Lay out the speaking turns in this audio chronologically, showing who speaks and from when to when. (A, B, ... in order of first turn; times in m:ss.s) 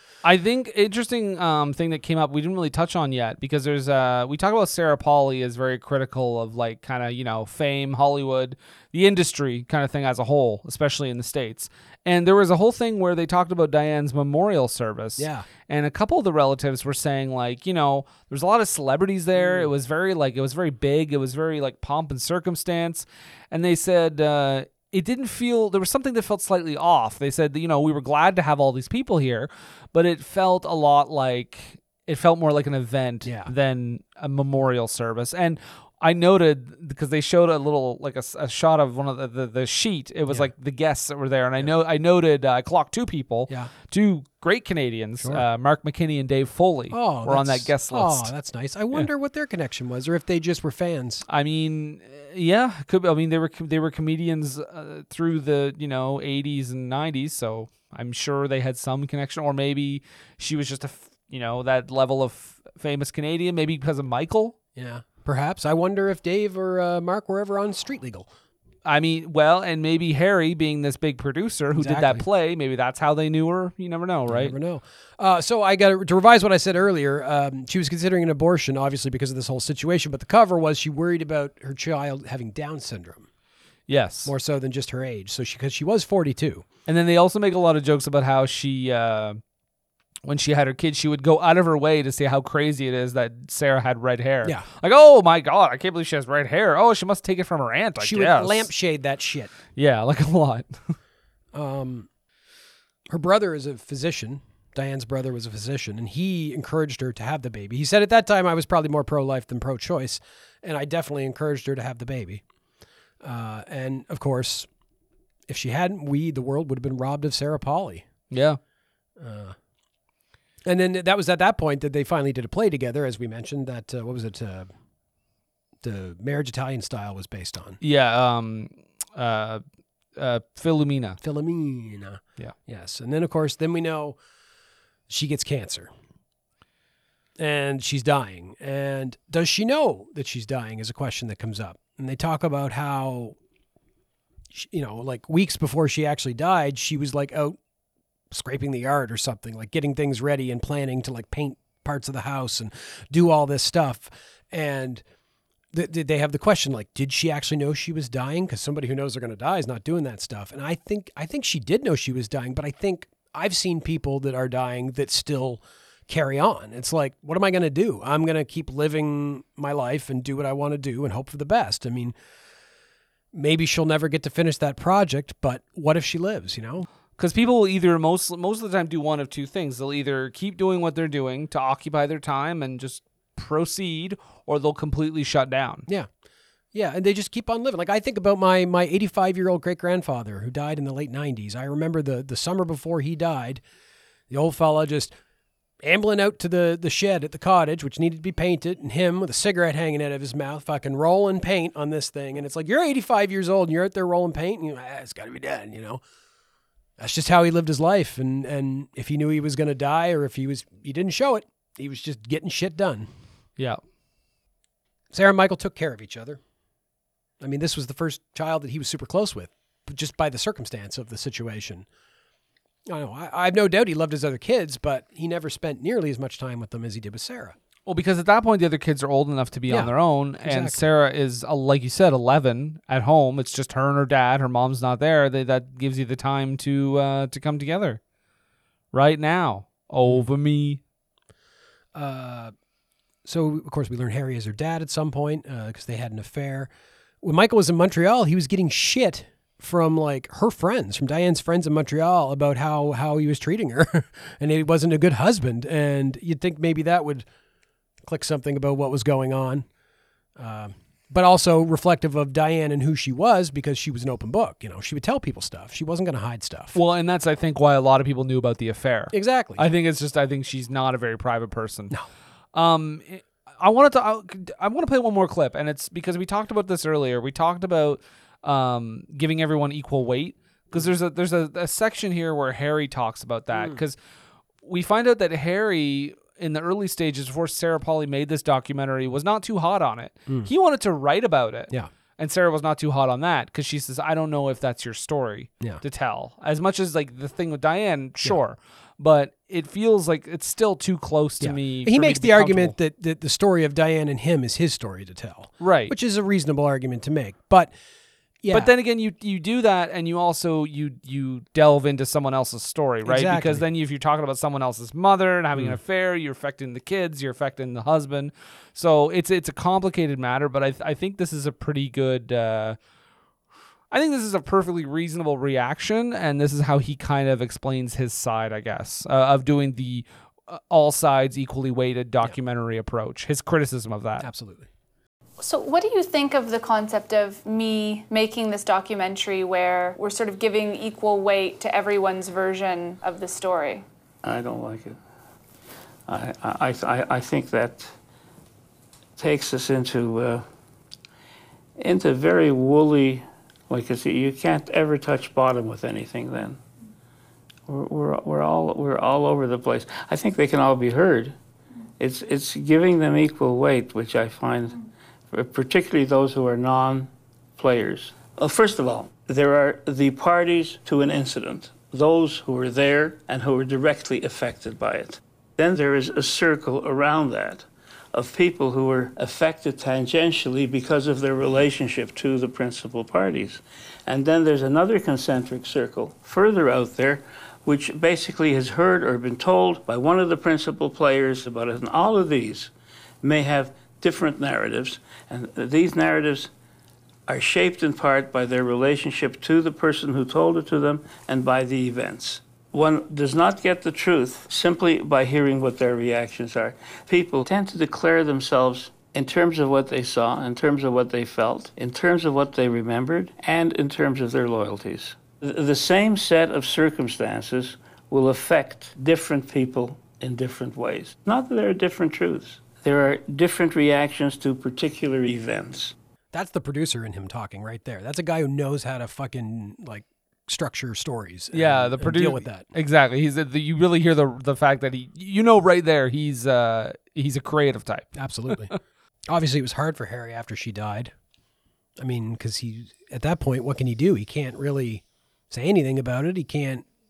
0:00.2-0:48.3 A
0:15.2-0:15.5 B
0:19.4-0:19.7 B
0:33.2-0:33.5 B
0:46.9-0:51.2 B
0:51.3-1:04.5 A
1:04.8-1:08.3 B
1:08.8-1:14.5 A
1:11.8-1:12.2 B
1:14.3-1:23.2 B
1:23.9-1:24.3 A
1:24.2-1:26.6 B
1:26.9-1:29.4 A
1:30.2-1:38.7 A
1:38.0-1:39.5 B
1:39.7-1:40.9 A
1:41.5-1:42.1 B
1:43.1-1:52.4 B
1:53.2-1:54.7 B
1:55.5-1:58.0 B
1:58.3-1:58.6 A
1:59.2-1:59.5 B
2:00.6-2:04.7 B
2:05.8-2:07.8 B
2:07.8-2:09.6 A
2:10.2-2:11.2 A
2:11.2-2:14.2 B
2:15.1-2:15.9 B
2:17.4-2:23.4 B
2:24.5-2:27.6 B
2:28.3-2:35.0 B
2:35.7-2:52.1 B
2:53.3-2:56.8 B
2:57.2-3:05.9 A
3:06.7-3:13.6 B
3:14.3-3:15.1 B
3:15.8-3:26.0 B
3:27.0-3:33.1 B
3:35.1-3:36.4 B
3:37.4-3:41.8 B
3:42.9-3:47.6 B
3:47.8-3:58.0 A
3:49.7-3:50.8 B
3:58.9-4:00.8 A
4:01.9-4:02.5 B
4:03.2-4:06.7 B
4:07.2-4:17.2 B
4:18.0-4:19.6 B
4:20.4-4:26.8 B
4:26.7-4:31.9 A
4:29.1-4:29.6 B
4:32.5-4:44.0 A
4:43.5-4:43.8 B
4:44.6-5:02.7 A
5:01.4-5:07.7 B
5:05.6-5:05.9 A
5:08.4-5:08.7 B
5:08.5-5:22.8 A
5:13.0-5:13.6 B
5:23.9-5:34.3 A
5:34.2-5:34.7 B
5:35.4-5:43.8 C
5:44.2-5:45.0 D
5:46.1-5:47.9 D
5:49.2-5:50.4 D
5:51.8-5:56.6 D
5:57.7-6:01.4 D
6:02.0-6:04.8 D
6:05.3-6:36.5 D
6:37.3-7:05.9 D
7:06.3-7:12.6 B
7:11.5-7:18.5 A
7:18.2-7:18.7 B
7:19.3-7:21.1 B
7:22.0-7:26.8 B